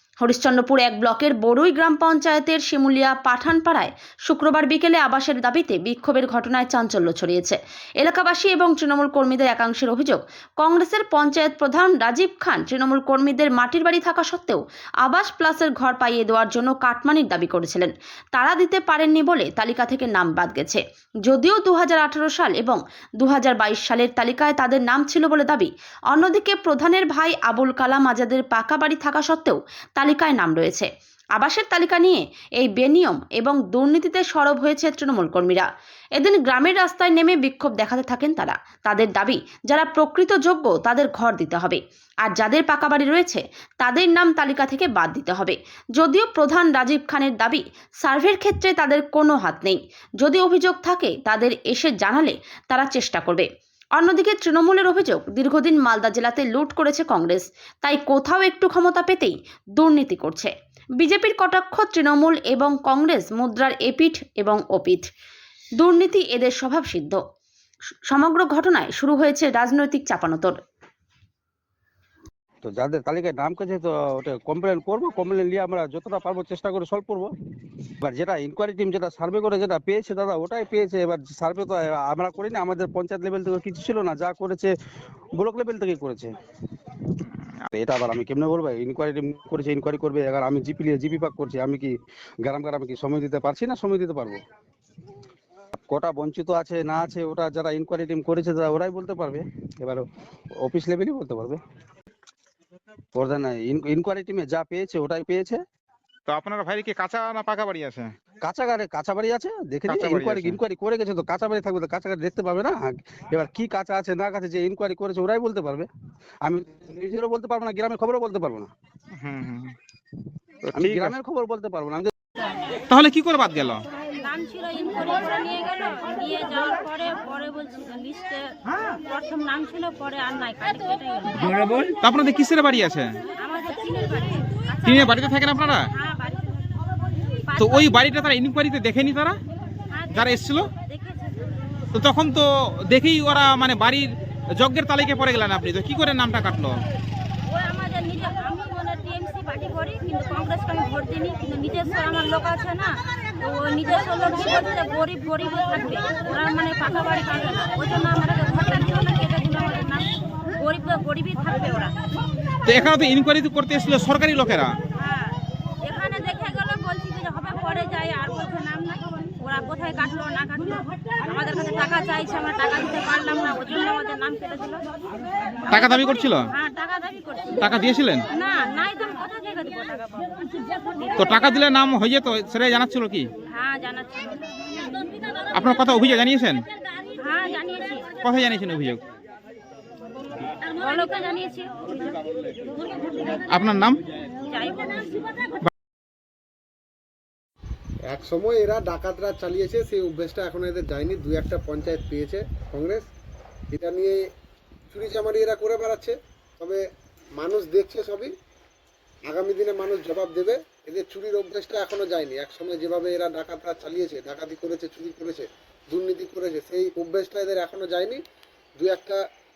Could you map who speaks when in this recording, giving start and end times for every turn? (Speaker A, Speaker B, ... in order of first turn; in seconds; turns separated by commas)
Speaker A: 0.2-35.7, Speaker A: 36.2-53.5, Speaker A: 54.0-65.0, Speaker A: 65.8-67.2, Speaker A: 68.1-70.6, Speaker B: 72.6-77.3, Speaker B: 78.0-84.7, Speaker B: 85.4-86.3, Speaker B: 87.7-94.4, Speaker B: 95.9-100.1, Speaker B: 100.6-101.6, Speaker B: 103.2-105.6, Speaker C: 106.3-108.1, Speaker B: 108.4-115.9, Speaker C: 109.9-110.5, Speaker B: 116.4-118.7, Speaker C: 119.2-119.8, Speaker B: 120.7-122.1, Speaker C: 120.8-121.1, Speaker C: 122.9-123.8, Speaker D: 124.2-131.7, Speaker C: 132.0-133.1, Speaker D: 133.4-136.5, Speaker C: 134.8-135.9, Speaker D: 137.5-138.3, Speaker C: 137.6-139.4, Speaker D: 139.9-141.4, Speaker C: 140.1-140.7, Speaker C: 141.9-146.8, Speaker D: 147.5-161.9, Speaker C: 162.7-164.8, Speaker D: 165.0-174.9, Speaker D: 175.7-180.5, Speaker C: 175.7-176.5, Speaker C: 177.6-178.3, Speaker D: 181.0-181.6, Speaker C: 181.2-183.3, Speaker D: 183.5-184.4, Speaker C: 185.5-186.7, Speaker D: 187.2-188.1, Speaker C: 188.2-189.0, Speaker D: 190.8-192.3, Speaker C: 193.5-194.0, Speaker D: 194.5-195.2, Speaker E: 198.1-203.1, Speaker E: 203.7-204.2, Speaker E: 204.9-206.8, Speaker E: 207.4-208.3, Speaker E: 209.3-218.2, Speaker E: 218.8-219.2